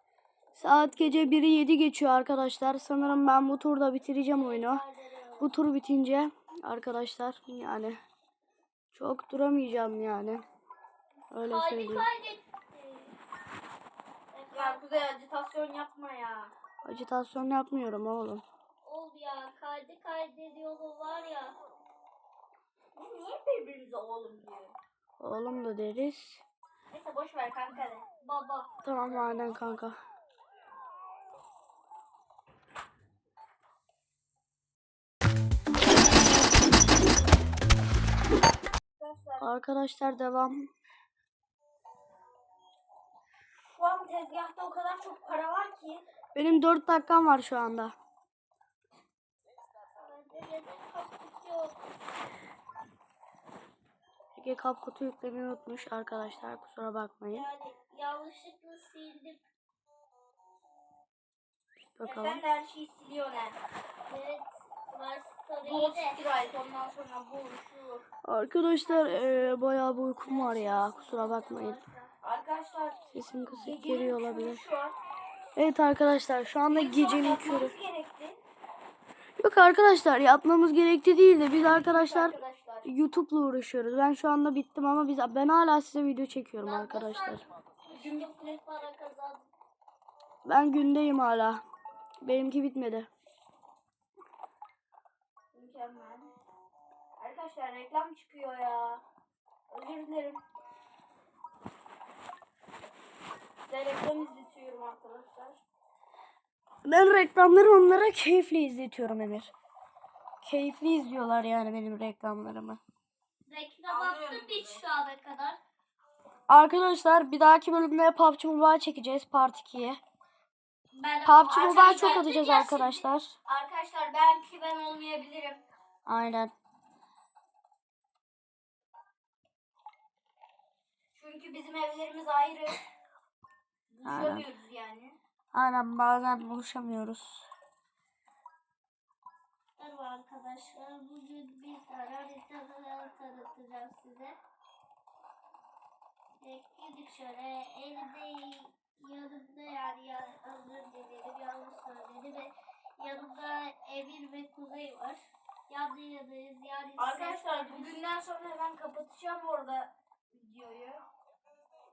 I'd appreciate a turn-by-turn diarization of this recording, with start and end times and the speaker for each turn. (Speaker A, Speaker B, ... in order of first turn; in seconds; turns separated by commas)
Speaker A: 0.6-4.8, Speaker B: 4.2-5.5, Speaker A: 5.4-8.0, Speaker A: 8.9-10.4, Speaker A: 11.3-12.1, Speaker B: 11.4-13.2, Speaker B: 14.3-14.8, Speaker C: 14.5-16.5, Speaker A: 16.8-18.4, Speaker B: 18.8-21.6, Speaker C: 22.9-24.7, Speaker A: 25.2-26.4, Speaker C: 26.9-28.1, Speaker B: 28.2-29.5, Speaker A: 28.8-29.9, Speaker C: 39.0-39.4, Speaker A: 39.4-40.7, Speaker C: 43.6-46.0, Speaker A: 46.3-47.9, Speaker B: 50.0-51.8, Speaker A: 54.4-57.5, Speaker B: 57.3-59.4, Speaker A: 62.0-62.4, Speaker C: 62.0-63.5, Speaker B: 64.1-66.2, Speaker C: 65.6-68.1, Speaker A: 68.2-71.8, Speaker B: 68.8-72.1, Speaker C: 72.2-73.0, Speaker A: 73.1-74.6, Speaker C: 73.6-74.9, Speaker A: 75.5-77.8, Speaker C: 76.7-78.4, Speaker A: 79.4-87.4, Speaker C: 81.8-82.9, Speaker B: 86.6-89.4, Speaker C: 87.9-88.6, Speaker A: 90.4-91.6, Speaker A: 92.2-93.1, Speaker C: 95.5-96.3, Speaker C: 97.2-99.0, Speaker C: 99.7-100.4, Speaker C: 103.7-105.6, Speaker A: 106.8-109.5, Speaker A: 110.4-112.8, Speaker B: 113.5-115.6, Speaker C: 113.9-114.8, Speaker A: 116.5-120.0, Speaker B: 120.9-123.0, Speaker A: 121.2-123.3, Speaker C: 121.5-122.8, Speaker C: 123.5-125.6, Speaker A: 126.1-126.5, Speaker C: 131.1-132.8, Speaker C: 133.9-135.2, Speaker A: 134.1-134.4, Speaker A: 135.5-137.5, Speaker B: 139.8-144.4, Speaker B: 146.4-155.2, Speaker B: 155.7-158.0, Speaker C: 157.0-161.0